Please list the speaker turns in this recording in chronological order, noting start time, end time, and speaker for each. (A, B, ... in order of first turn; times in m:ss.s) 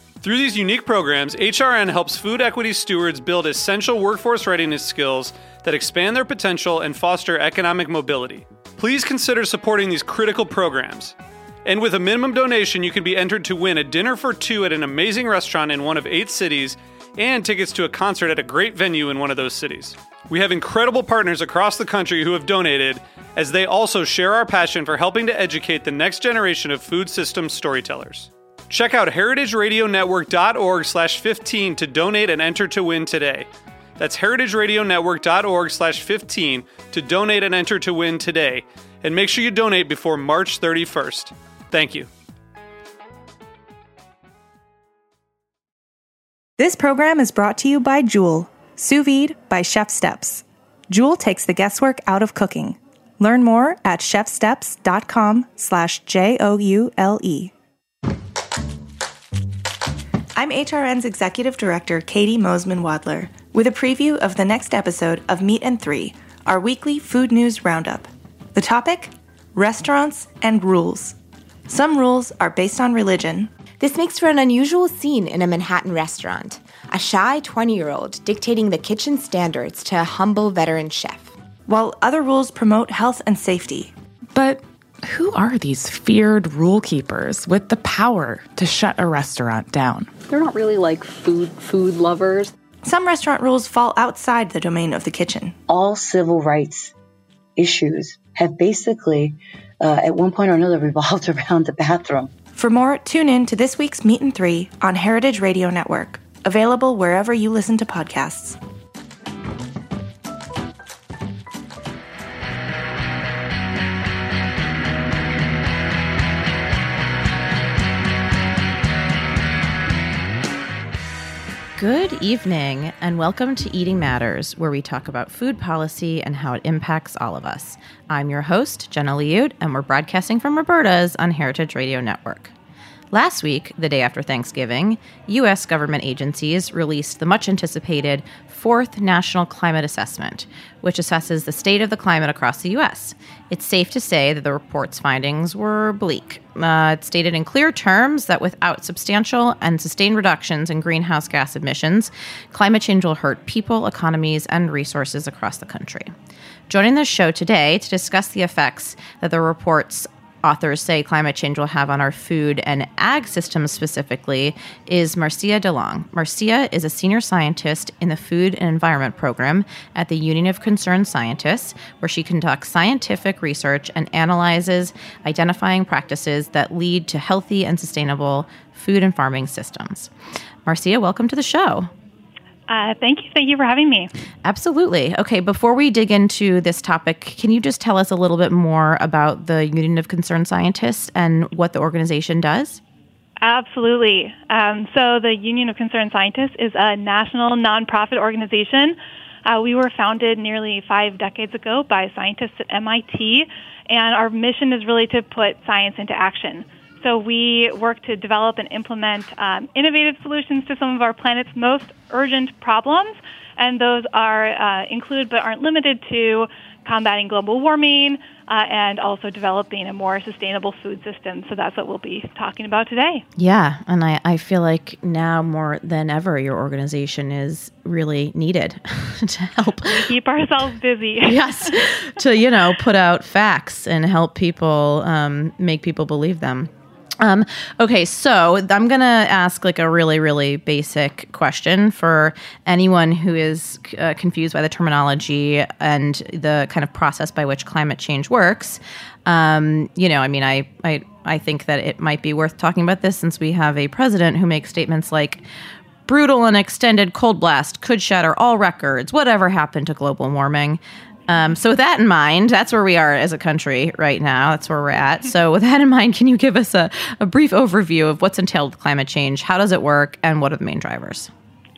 0:00.2-0:42.1 A
0:46.6-0:57.5 B
1:00.4-1:11.2 B
1:11.7-1:13.5 B
1:13.8-1:21.3 C
1:21.7-1:23.9 B
1:24.3-1:30.1 D
1:30.3-1:32.5 E
1:32.8-1:35.6 B
1:35.7-1:36.9 F
1:37.6-1:42.3 F
1:42.6-1:48.6 B
2:01.8-2:12.5 G
2:13.1-2:36.1 G
2:36.7-3:00.1 G
3:00.7-3:01.9 G
3:02.7-3:04.1 H
3:04.4-3:12.8 G
3:13.4-3:43.2 H
3:43.4-3:50.1 G
3:49.8-3:51.8 H
3:51.2-4:15.4 G
4:16.1-4:31.3 G